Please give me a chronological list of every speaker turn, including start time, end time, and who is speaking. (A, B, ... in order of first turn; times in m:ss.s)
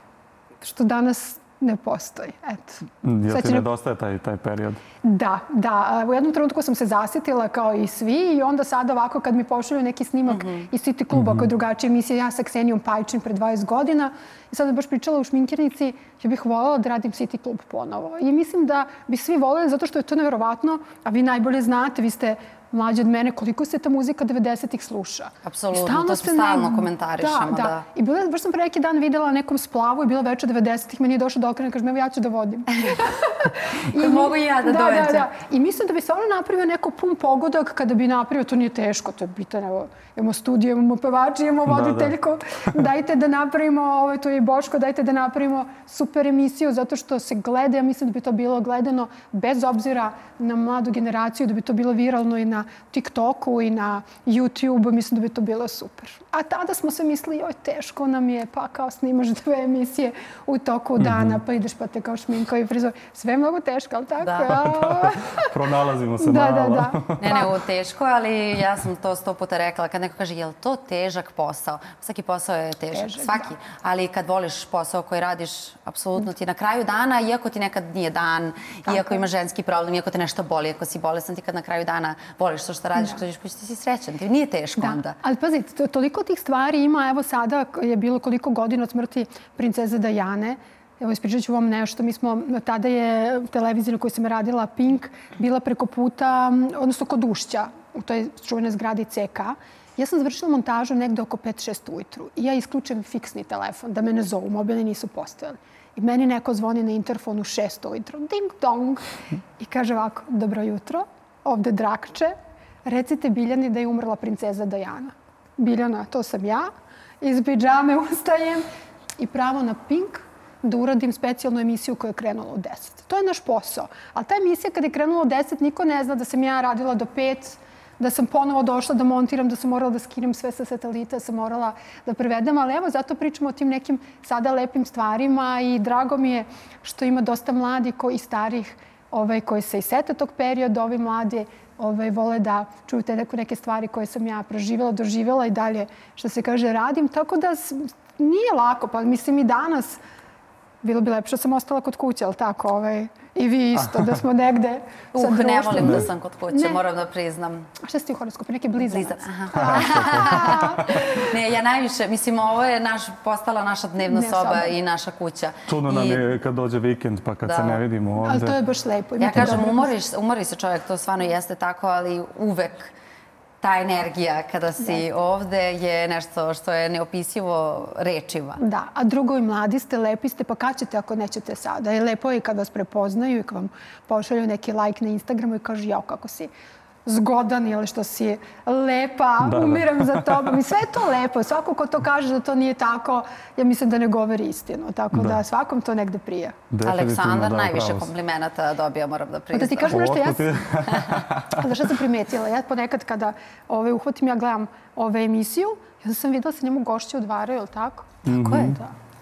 0:00.6-0:03.7 A
0:03.0-0:04.8 B
0:05.0-1:05.5 A
0:10.3-0:10.7 C
0:11.1-0:11.5 B
0:25.4-0:27.8 C
0:33.9-0:35.3 C
0:41.7-0:42.1 B
1:01.0-1:01.4 B
1:04.2-1:04.6 C
1:04.4-1:07.2 B
1:06.2-1:07.5 A
1:07.2-1:25.1 C
1:12.9-1:13.5 A
1:18.8-1:19.2 A
1:24.8-1:49.0 A
1:49.6-1:56.7 A
1:57.2-1:58.6 A
1:59.2-2:30.0 A
2:30.8-2:36.8 A
2:35.1-2:37.7 C
2:35.8-2:36.1 B
2:37.8-2:41.3 A
2:38.8-2:46.2 C
2:39.7-2:40.8 B
2:44.0-2:44.7 A
2:45.7-2:48.6 B
2:47.4-2:47.8 C
2:48.2-2:49.9 A
2:49.2-2:52.9 C
2:53.6-2:58.6 C
2:58.6-3:06.5 A
3:07.0-3:16.6 A
3:09.4-3:10.5 B
3:15.1-3:15.4 B
3:16.7-3:18.1 B
3:16.8-3:20.2 C
3:19.5-3:20.6 A
3:19.9-3:21.7 B
3:21.5-3:28.9 A
3:28.2-3:28.8 B
3:28.3-3:28.8 C